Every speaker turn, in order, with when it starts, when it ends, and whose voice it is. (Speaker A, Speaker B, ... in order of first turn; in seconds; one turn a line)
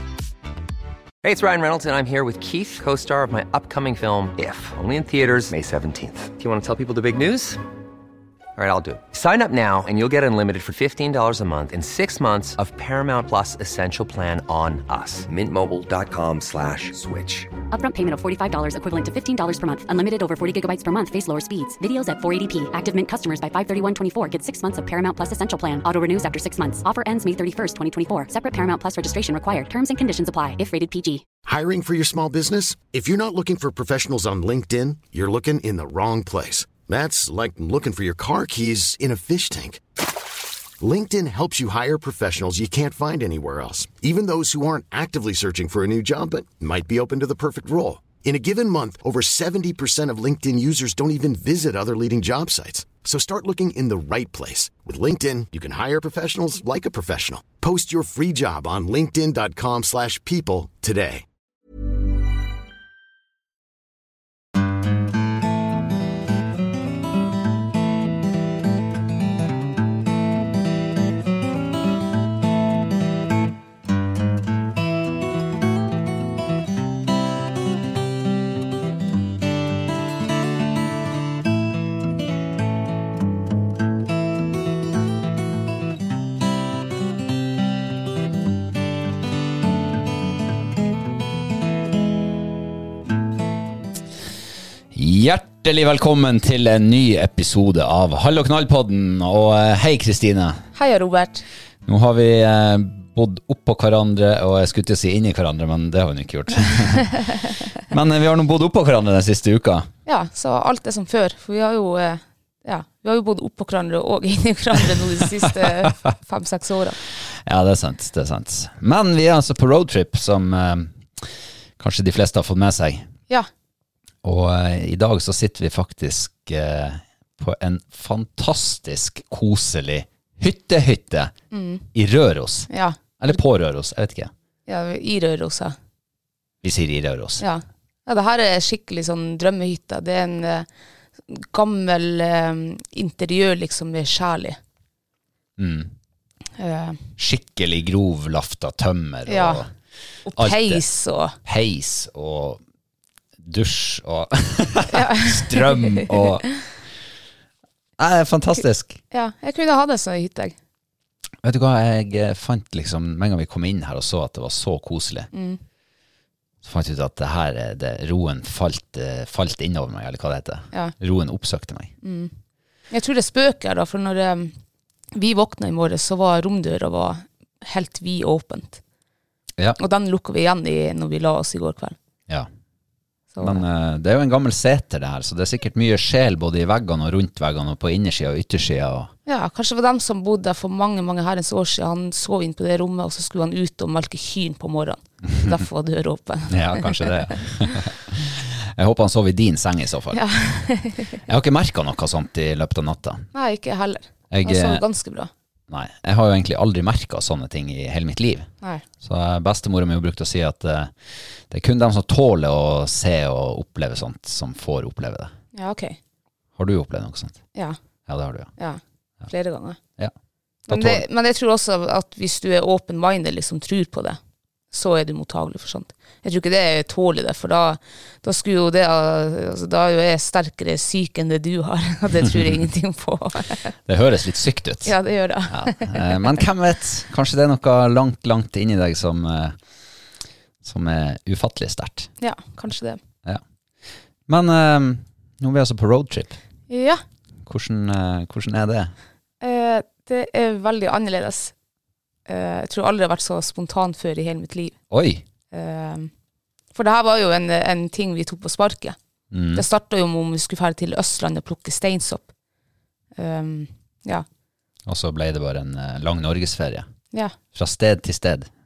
Speaker A: 1.2-7.6
Speaker A: 8.6-17.5
Speaker B: 17.7-31.2
Speaker C: 31.4-39.8
Speaker C: 40.8-61.2
Speaker D: 94.9-100.6
Speaker E: 100.8-101.4
Speaker D: 101.8-107.3
Speaker D: 107.9-109.9
Speaker E: 110.0-117.0
Speaker D: 115.5-115.9
Speaker D: 117.4-123.1
Speaker D: 124.2-131.3
Speaker E: 131.5-131.8
Speaker D: 131.9-134.3
Speaker E: 132.7-133.4
Speaker E: 134.7-135.7
Speaker D: 136.6-137.4
Speaker E: 137.4-140.7
Speaker E: 141.3-144.6
Speaker D: 145.6-145.9
Speaker E: 146.6-147.0
Speaker D: 147.2-149.7
Speaker E: 149.3-149.6
Speaker E: 150.2-151.3
Speaker D: 150.3-150.8
Speaker D: 151.4-152.6
Speaker D: 153.4-156.4
Speaker E: 154.9-156.2
Speaker D: 158.0-159.0
Speaker E: 159.1-160.5
Speaker D: 161.4-165.3
Speaker E: 165.3-165.6
Speaker D: 166.6-171.9
Speaker E: 172.0-172.3
Speaker E: 172.9-174.5
Speaker E: 175.1-178.8
Speaker E: 179.8-181.9
Speaker E: 183.3-183.6
Speaker D: 183.4-189.1
Speaker E: 189.3-197.3
Speaker D: 196.5-200.2
Speaker E: 200.1-201.2
Speaker D: 201.3-203.3
Speaker E: 203.3-205.3
Speaker D: 204.3-204.8
Speaker D: 205.7-208.5
Speaker D: 209.0-210.9
Speaker D: 211.5-215.3
Speaker E: 215.5-216.0
Speaker D: 216.6-217.4
Speaker D: 218.1-218.5
Speaker E: 218.6-219.8
Speaker E: 220.7-224.2
Speaker D: 220.7-221.0
Speaker E: 224.7-233.7
Speaker D: 233.9-234.9
Speaker E: 234.8-236.2
Speaker D: 235.5-239.6
Speaker D: 240.6-242.1
Speaker E: 242.2-243.0
Speaker D: 244.3-246.4
Speaker E: 246.7-247.0
Speaker D: 247.4-248.9
Speaker E: 249.4-251.5
Speaker E: 252.3-254.7
Speaker D: 254.9-255.2
Speaker E: 255.5-256.1
Speaker E: 256.7-259.0
Speaker D: 259.3-259.6
Speaker E: 259.5-262.3
Speaker E: 263.1-264.2
Speaker D: 264.9-266.9
Speaker D: 267.5-268.5